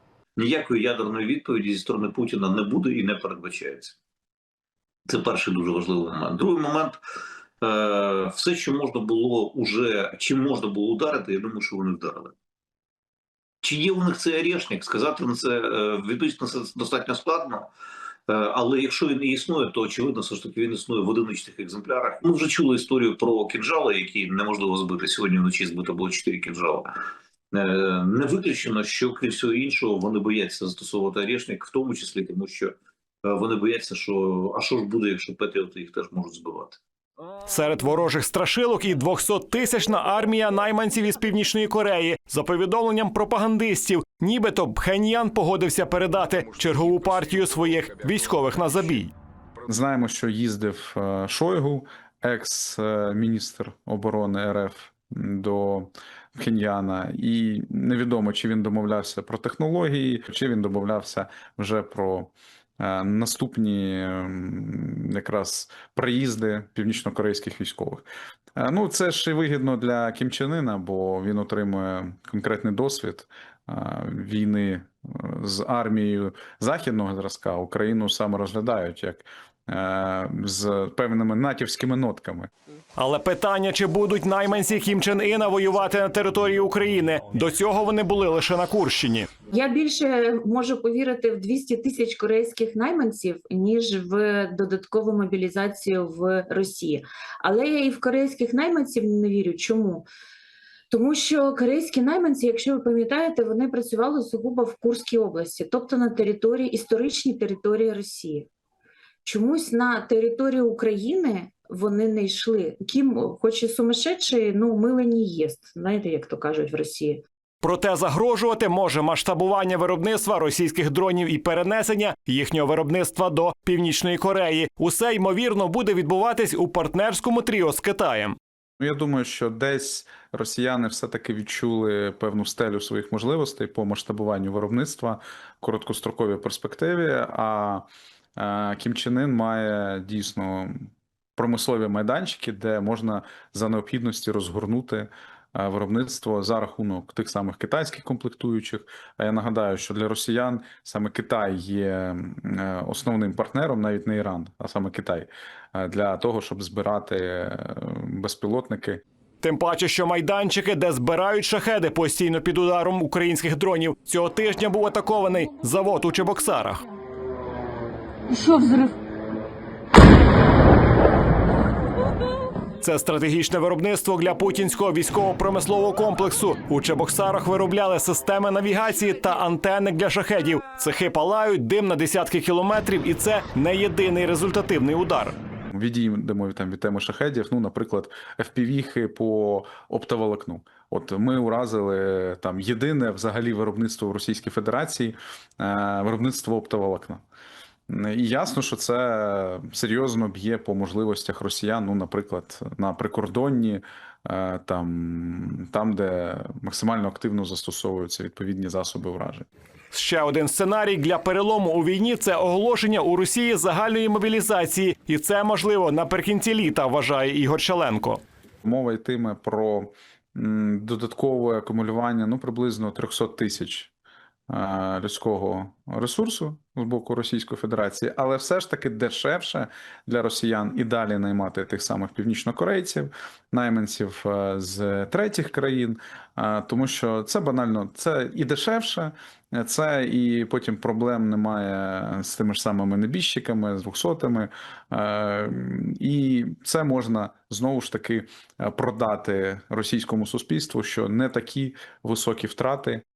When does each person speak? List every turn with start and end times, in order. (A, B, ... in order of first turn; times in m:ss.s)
0:00.4-0:04.0 A
0:05.1-0:07.0 A
0:07.6-0:12.3 A
0:13.6-0:17.7 A
0:18.3-0:26.9 A
0:27.5-0:36.8 A
0:37.5-0:49.1 B
0:49.7-1:08.0 C
1:08.6-1:22.5 C
1:23.0-1:29.3 B
1:29.5-1:40.1 D
1:40.9-1:48.5 D
1:49.2-1:57.2 D
1:57.6-2:08.4 B
2:08.8-2:17.8 C
2:18.4-2:39.0 C
2:39.4-2:46.8 B
2:52.8-3:05.4 B
3:05.7-3:17.2 C
3:17.9-3:29.5 C
3:29.9-3:38.2 B
3:38.6-3:43.9 C
3:44.5-4:13.0 C